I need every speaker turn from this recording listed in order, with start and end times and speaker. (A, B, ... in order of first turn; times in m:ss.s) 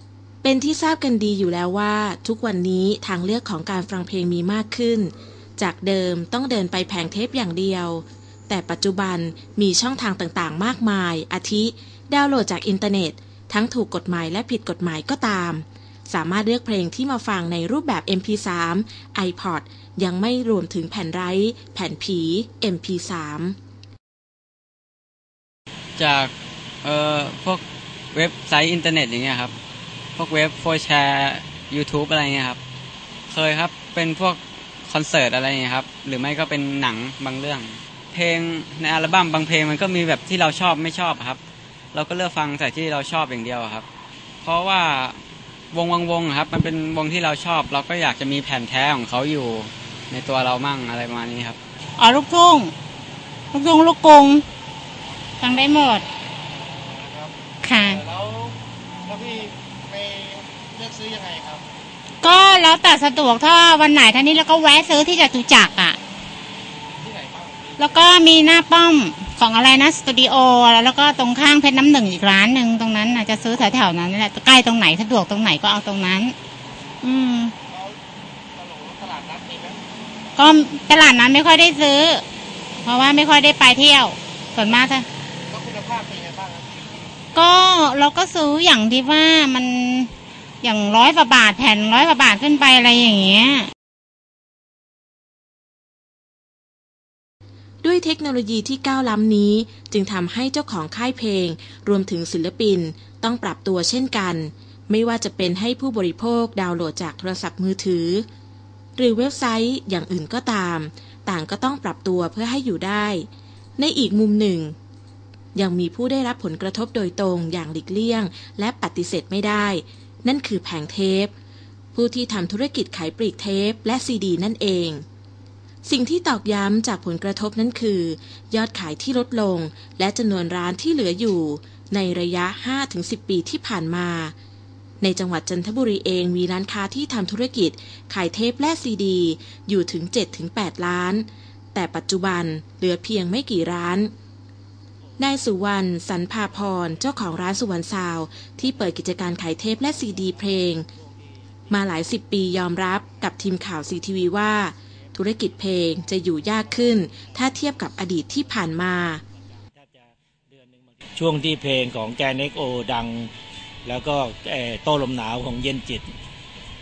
0:00.4-0:23.6 A
0:26.0-0:26.3 B
0:26.8-0:29.5 B
0:30.2-0:32.6 B
0:33.3-0:41.4 B
0:41.9-0:43.8 B
0:44.4-0:45.2 B
0:45.7-0:51.6 B
0:52.0-0:52.7 C
0:53.5-0:54.4 C
0:55.4-0:56.0 C
0:56.9-0:57.3 D
0:57.6-0:58.0 C
0:58.1-0:58.6 D
0:59.1-1:01.6 D
1:02.2-1:06.0 C
1:07.1-1:07.5 D
1:07.8-1:16.4 C
1:17.0-1:17.5 C
1:18.6-1:19.8 D
1:20.4-1:22.2 C
1:22.8-1:25.1 C
1:25.5-1:26.7 D
1:27.3-1:30.1 C
1:30.6-1:33.7 C
1:37.8-1:48.3 A
1:49.0-1:54.8 A
1:55.6-2:01.3 A
2:02.0-2:05.0 A
2:05.8-2:14.4 A
2:15.0-2:24.1 A
2:25.2-2:30.9 A
2:31.7-2:39.2 A
2:39.7-2:43.3 E
2:43.8-2:46.1 E